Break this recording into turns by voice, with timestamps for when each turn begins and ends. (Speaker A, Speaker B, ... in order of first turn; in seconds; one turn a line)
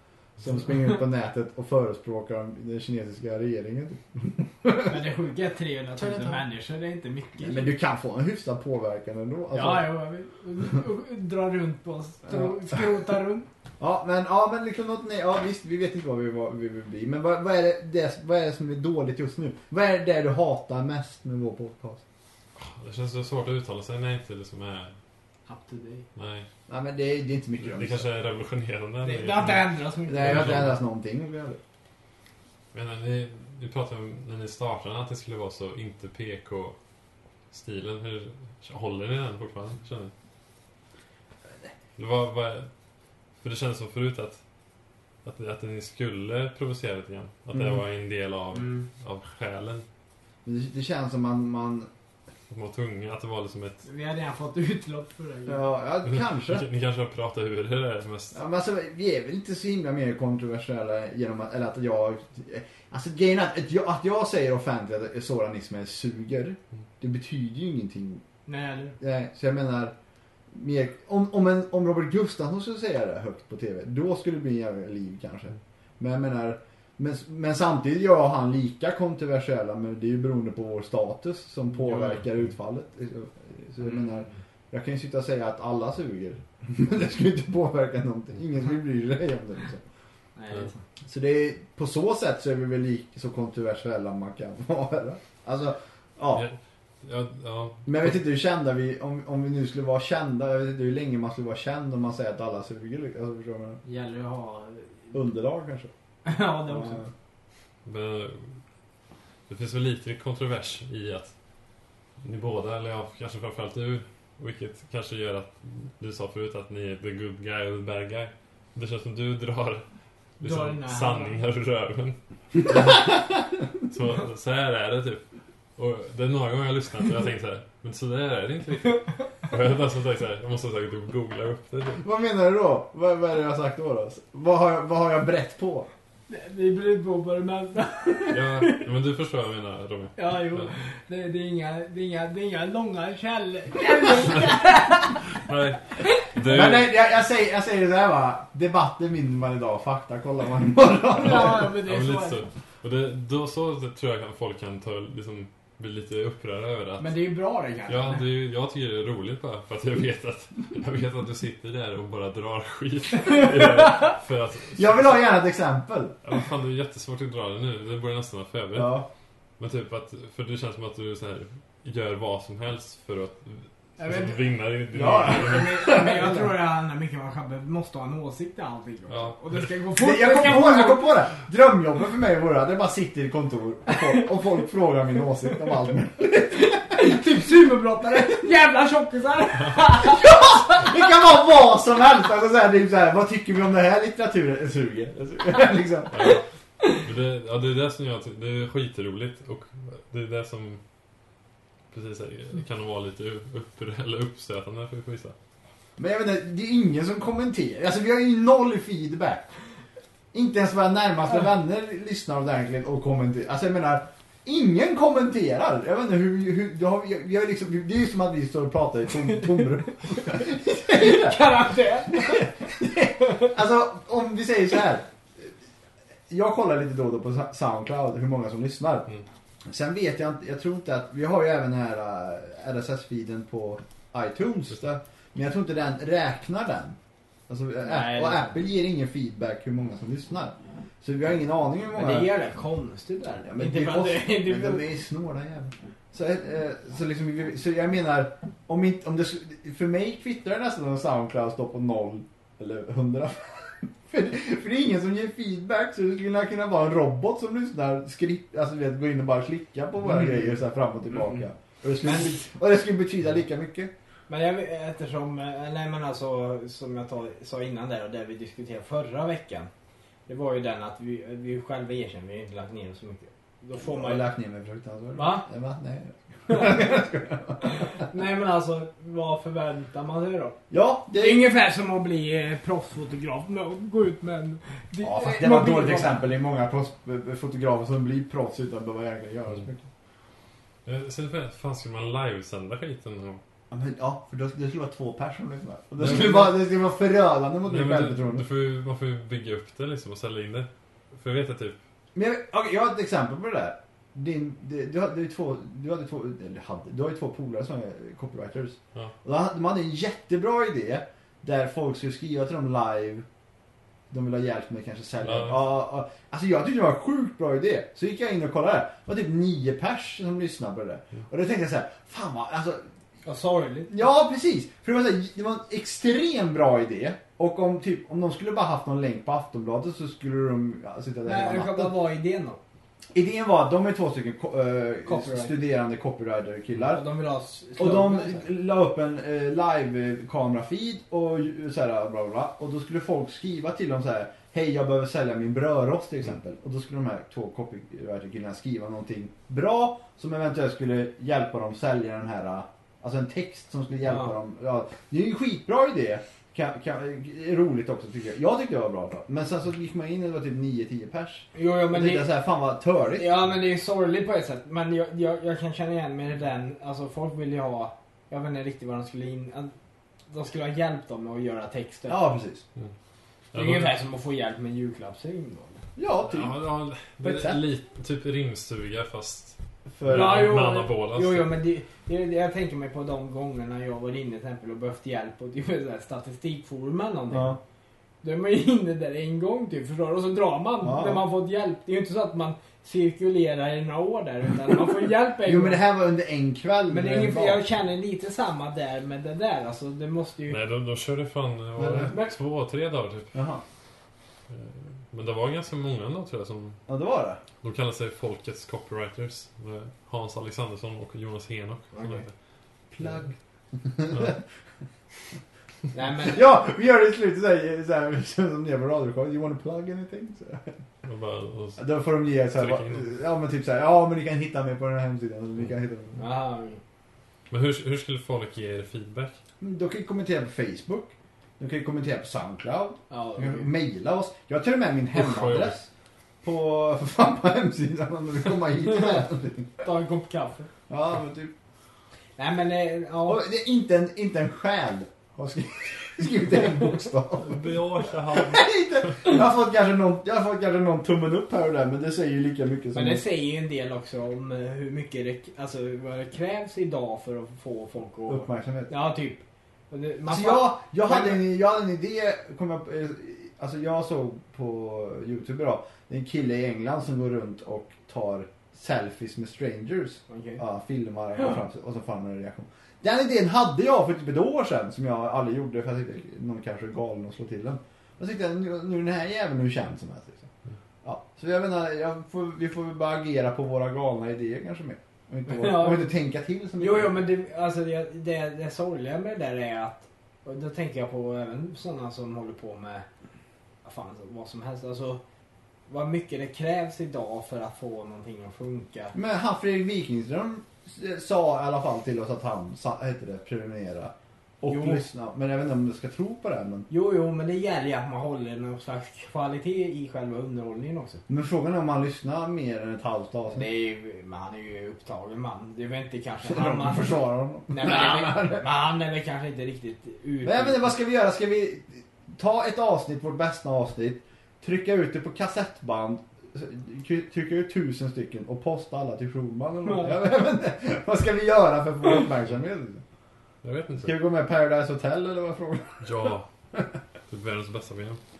Speaker A: 0.4-5.0
Speaker B: 4.8-7.7
Speaker A: 7.4-9.9
Speaker B: 9.5-13.5
Speaker A: 12.3-12.8
Speaker A: 13.8-22.0
Speaker C: 22.6-24.9
Speaker B: 25.5-26.1
Speaker C: 26.1-26.5
Speaker A: 26.7-28.1
Speaker C: 27.6-30.7
Speaker B: 29.0-30.7
Speaker A: 30.1-31.6
Speaker C: 32.7-36.8
Speaker C: 37.5-40.1
Speaker C: 42.0-42.7
Speaker C: 43.4-44.4
Speaker C: 45.2-49.8
Speaker B: 48.5-48.9
Speaker A: 50.4-51.9
Speaker C: 52.5-53.8
Speaker B: 53.8-55.6
Speaker A: 55.5-56.6
Speaker C: 56.0-58.4
Speaker A: 58.3-68.2
Speaker B: 68.5-69.0
Speaker A: 69.0-69.9
Speaker A: 70.5-89.8
Speaker B: 83.8-84.3
Speaker B: 90.3-90.8
Speaker A: 91.0-96.5
Speaker C: 96.3-98.1
Speaker A: 97.8-103.8
Speaker B: 103.8-105.1
Speaker A: 105.1-105.9
Speaker B: 106.2-107.0
Speaker A: 106.7-107.1
Speaker C: 107.8-108.6
Speaker C: 109.5-111.3
Speaker C: 112.2-119.8
Speaker C: 120.4-125.2
Speaker B: 120.4-121.4
Speaker C: 125.8-132.0
Speaker A: 132.0-135.9
Speaker B: 136.3-138.8
Speaker C: 138.3-140.7
Speaker B: 140.2-145.1
Speaker C: 145.3-146.9
Speaker A: 146.5-151.8
Speaker B: 151.1-152.4
Speaker C: 151.2-157.1
Speaker B: 157.0-158.2
Speaker C: 157.9-165.2
Speaker B: 163.3-164.1
Speaker A: 164.8-166.2
Speaker C: 166.2-169.0
Speaker A: 168.7-169.1
Speaker C: 169.6-175.9
Speaker B: 174.0-174.4
Speaker A: 174.9-176.5
Speaker B: 175.2-181.1
Speaker C: 179.1-179.7
Speaker A: 180.0-186.8
Speaker B: 186.5-190.5
Speaker A: 190.0-196.2
Speaker C: 196.1-200.8
Speaker C: 201.9-205.3
Speaker A: 206.0-209.5
Speaker A: 210.3-221.4
Speaker B: 220.8-222.5
Speaker A: 222.1-225.5
Speaker A: 226.3-229.1
Speaker A: 229.7-237.0
Speaker A: 237.5-242.3
Speaker B: 237.8-238.6
Speaker B: 241.9-244.8
Speaker A: 243.4-263.9
Speaker B: 262.0-262.4
Speaker B: 264.3-269.7
Speaker B: 270.3-274.3
Speaker A: 273.8-277.8
Speaker B: 275.1-275.4
Speaker B: 276.5-276.9
Speaker B: 277.6-280.6
Speaker A: 280.7-281.5
Speaker B: 281.2-286.2
Speaker A: 285.0-289.9
Speaker C: 290.8-293.4
Speaker A: 293.7-298.4
Speaker C: 296.0-296.6
Speaker C: 297.6-301.8
Speaker A: 302.1-313.2
Speaker A: 314.1-322.8
Speaker C: 315.2-315.6
Speaker B: 323.2-324.0
Speaker A: 323.9-331.9
Speaker B: 331.2-332.6
Speaker A: 333.1-337.0
Speaker B: 335.0-335.6
Speaker B: 336.8-338.5
Speaker A: 337.8-363.3
Speaker B: 354.1-354.3
Speaker B: 361.5-362.3
Speaker B: 363.1-369.7
Speaker B: 370.3-372.2
Speaker A: 372.1-372.6
Speaker C: 373.5-373.9
Speaker B: 373.5-375.8
Speaker A: 375.9-376.5
Speaker C: 376.3-381.5
Speaker A: 377.2-377.6
Speaker A: 379.9-380.6
Speaker B: 380.1-387.6
Speaker A: 387.3-387.6
Speaker B: 388.2-395.8
Speaker A: 390.8-391.2
Speaker A: 395.4-397.6
Speaker B: 396.9-400.6
Speaker C: 400.5-403.3
Speaker A: 401.8-402.1
Speaker B: 402.0-402.3
Speaker A: 403.3-403.6
Speaker C: 404.5-406.8
Speaker A: 406.9-407.4
Speaker C: 407.6-412.3
Speaker B: 411.9-412.2
Speaker A: 412.9-414.4
Speaker B: 415.9-416.4
Speaker A: 416.2-420.8
Speaker C: 421.0-421.9
Speaker A: 421.8-426.2
Speaker C: 422.4-423.0
Speaker B: 426.1-426.8
Speaker C: 427.5-429.4
Speaker A: 429.6-435.9
Speaker B: 433.1-433.7
Speaker C: 435.1-435.7
Speaker A: 436.4-439.8
Speaker B: 439.8-440.7
Speaker A: 440.9-441.5
Speaker B: 442.4-443.4
Speaker A: 443.2-447.8
Speaker C: 447.4-448.7
Speaker A: 448.3-453.2
Speaker B: 452.9-461.4
Speaker A: 458.3-458.9
Speaker A: 460.3-480.5
Speaker B: 470.3-470.6
Speaker A: 481.0-487.1
Speaker B: 485.5-486.1
Speaker B: 486.8-493.1
Speaker B: 493.8-495.2
Speaker B: 495.9-499.1
Speaker A: 499.1-506.9
Speaker B: 504.7-505.0
Speaker B: 506.9-511.2
Speaker A: 511.3-513.7
Speaker B: 513.5-520.9
Speaker A: 516.4-518.6
Speaker A: 520.4-533.0
Speaker B: 529.8-530.1
Speaker C: 533.6-534.1
Speaker A: 534.0-536.0
Speaker C: 536.0-536.5
Speaker C: 537.3-538.2